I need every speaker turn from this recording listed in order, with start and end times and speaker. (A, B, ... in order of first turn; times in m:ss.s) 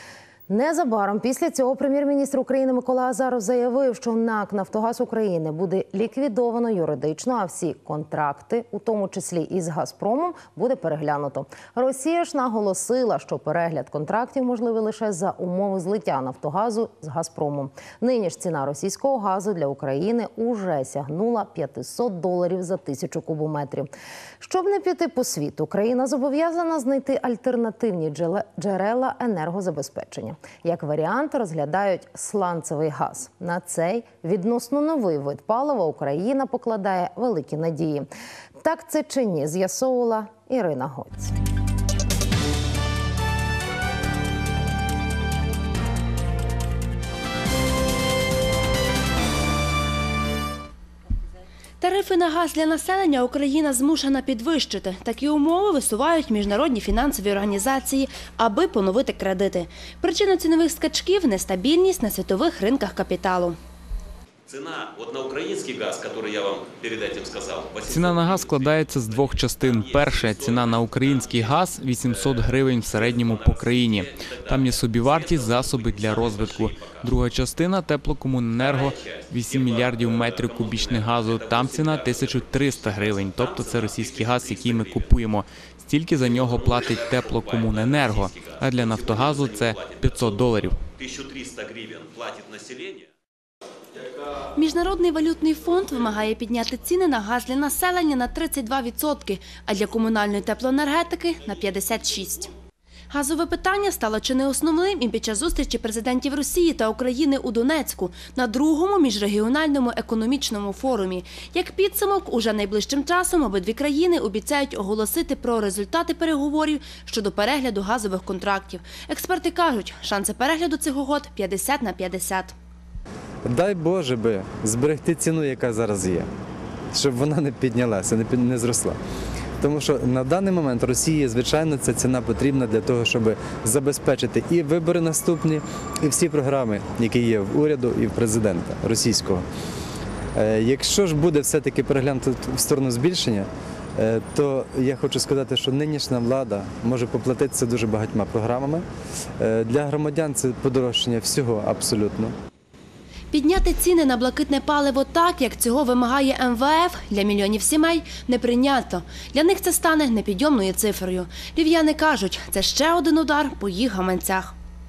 0:00.5-0:23.9 A
0:24.4-0:38.1 A
0:38.6-0:41.3 A
0:51.8-1:03.6 B
1:04.5-1:08.5 C
1:07.8-1:30.8 D
1:09.1-1:09.8 C
1:12.5-1:14.0 C
1:14.7-1:17.0 C
1:19.1-1:25.0 C
1:27.8-1:30.0 C
1:30.6-1:33.0 C
1:34.6-1:42.5 B
1:43.1-2:02.5 B
2:03.4-2:06.3 E
2:06.9-2:09.0 E
2:09.6-2:19.4 E
2:20.4-2:28.8 E
2:29.4-2:32.4 E
2:33.3-2:44.5 B